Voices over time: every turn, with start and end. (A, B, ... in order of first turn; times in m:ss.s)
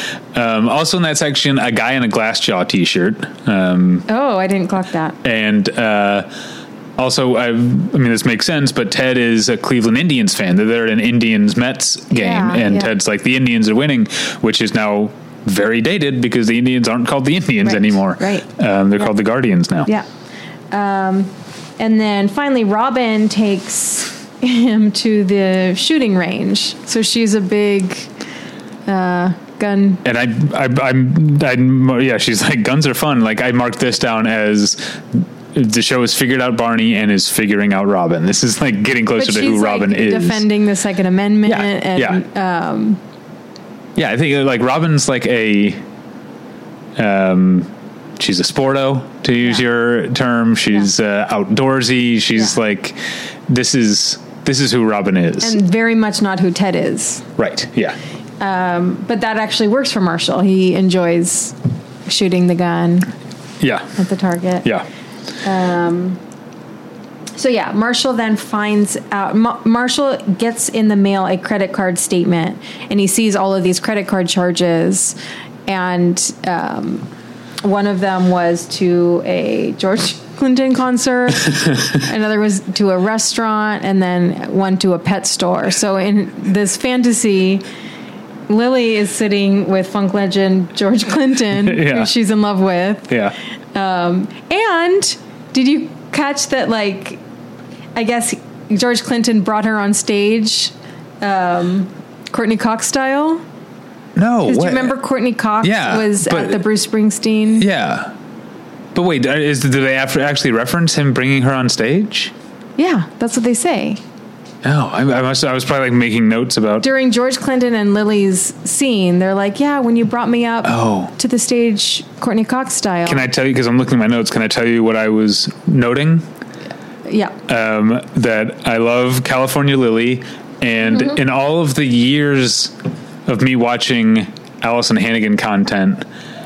0:00.3-0:04.1 A
0:04.1-0:05.2 B
0:05.2-0:06.3 A
0:07.0-0:19.9 A
0:12.1-0:12.9 B
0:17.6-0:18.5 B
0:20.7-0:28.1 B
0:28.9-0:30.0 B
0:30.0-0:40.4 A
0:39.2-0:43.0 B
0:41.5-0:42.2 A
0:44.0-0:45.8 A
0:47.0-0:55.6 A
0:55.4-0:57.3 B
0:57.4-0:58.0 A
0:58.4-1:03.1 B
1:03.6-1:03.9 A
1:04.0-1:04.7 B
1:05.4-1:06.2 B
1:07.4-1:17.1 B
1:17.6-1:27.6 B
1:28.5-1:33.2 B
1:31.5-1:32.1 A
1:33.1-1:33.4 A
1:33.7-1:37.2 B
1:38.0-1:43.4 B
1:44.2-1:45.0 A
1:44.4-1:47.7 B
1:45.6-1:46.6 A
1:47.6-1:48.1 A
1:48.9-1:52.3 A
1:52.8-1:54.0 B
1:54.6-1:56.9 A
1:56.8-2:03.2 B
2:00.6-2:01.1 A
2:03.1-2:06.3 A
2:07.0-2:07.4 B
2:07.5-2:12.7 A
2:13.3-2:16.0 A